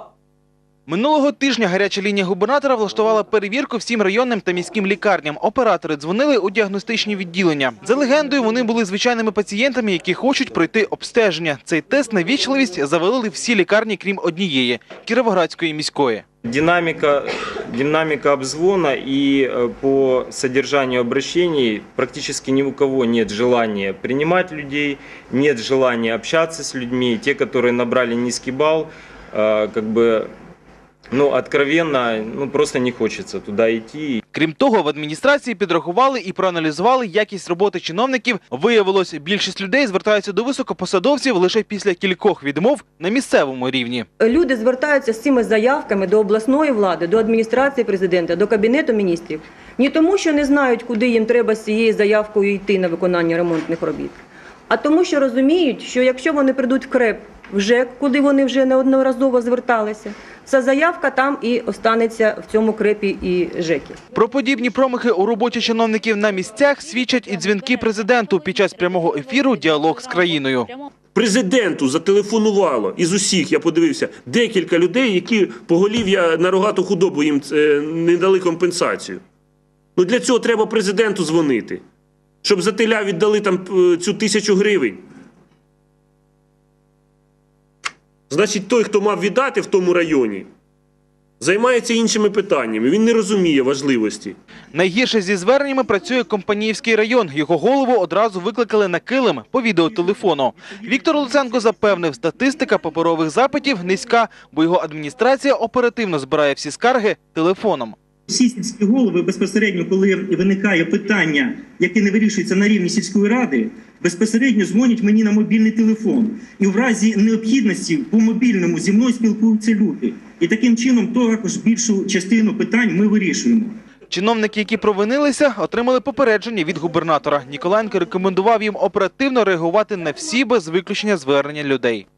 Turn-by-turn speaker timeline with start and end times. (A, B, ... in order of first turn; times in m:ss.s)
0:00.9-0:16.2 A
0:16.4-0:30.3 B
0:31.1-0:34.2 B
0:34.3-0:44.1 A
0:44.2-0:54.2 C
0:54.7-1:04.0 C
1:04.1-1:10.7 A
1:11.1-1:19.2 D
1:20.0-1:21.8 D
1:22.4-1:25.0 D
1:28.3-1:30.5 D
1:31.4-1:34.4 D
1:34.7-1:47.9 A
1:40.6-1:41.1 E
1:48.3-2:03.7 E
2:04.1-2:12.0 A